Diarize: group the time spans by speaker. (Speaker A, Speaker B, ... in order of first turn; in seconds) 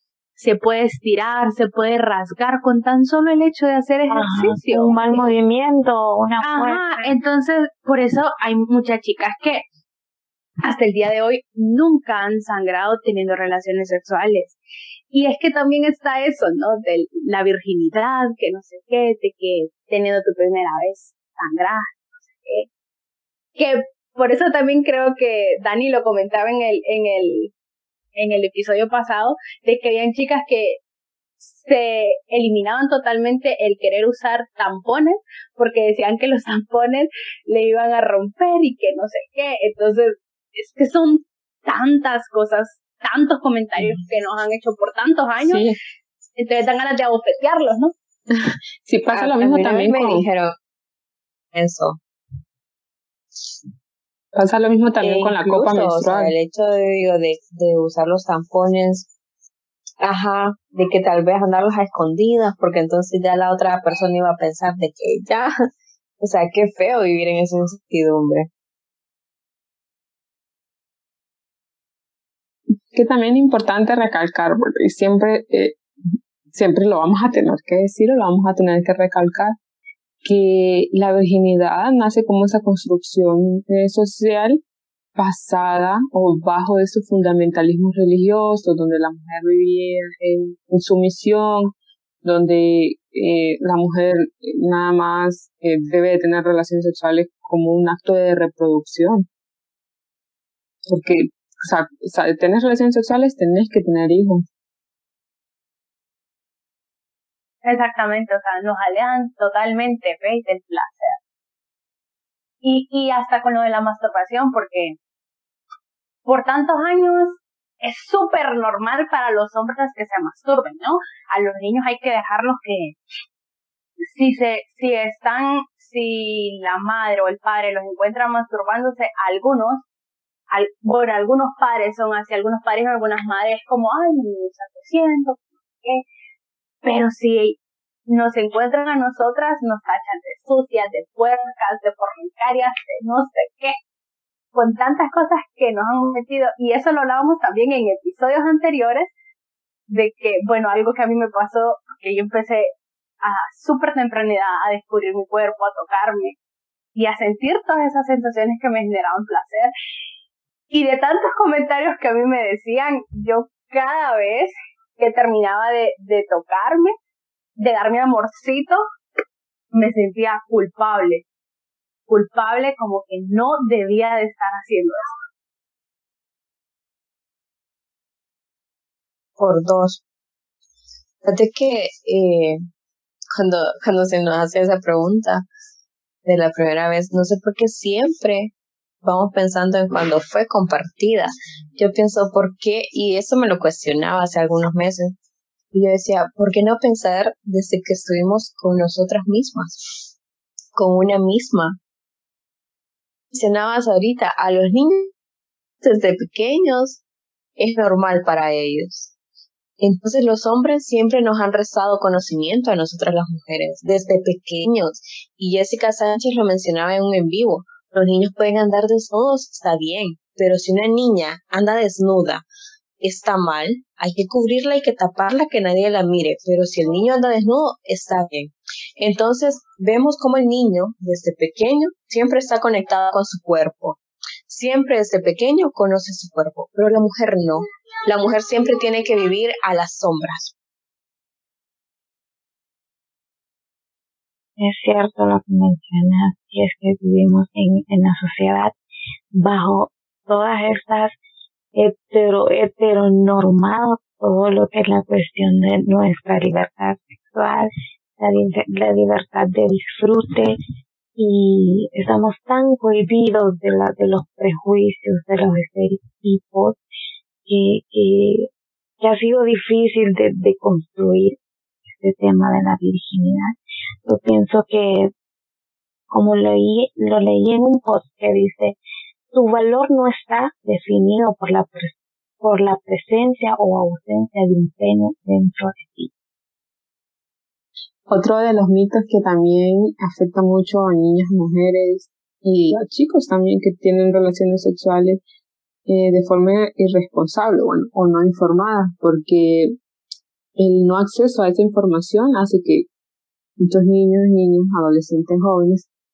Speaker A: 0.4-5.3, 6.4-9.6, 10.6-14.6, 15.1-22.7, 23.6-27.5, 28.1-30.8, 31.4-45.6, 46.4-47.9, 107.6-111.2, 112.6-115.0, 116.2-123.0, 124.0-129.8, 130.5-136.0, 136.8-143.8, 144.5-149.1, 149.9-152.7, 153.2-156.3, 156.9-159.7, 160.7-166.9, 167.6-168.8, 169.7-171.2, 172.1-175.2
Speaker B: 4.1-7.1, 244.6-248.7, 249.4-251.1, 251.7-260.6, 261.2-266.8, 267.4-268.5, 269.0-271.4, 271.9-275.1, 276.1-278.8, 279.3-286.1
Speaker C: 45.4-45.8, 48.3-50.2, 54.3-56.3, 72.9-79.5, 80.2-84.6, 85.1-91.7, 92.2-99.2, 100.9-104.4, 288.1-295.2, 295.9-299.8, 300.6-302.9, 303.6-305.9
Speaker D: 49.1-50.5, 51.5-52.0, 55.0-59.1, 60.0-65.5, 66.2-68.5, 179.4-180.0, 181.2-182.6, 183.3-185.4, 186.2-188.5, 189.0-195.1, 195.7-200.1, 200.7-201.8, 203.3-205.1, 205.8-207.0, 207.6-209.1, 209.8-222.4, 223.0-240.5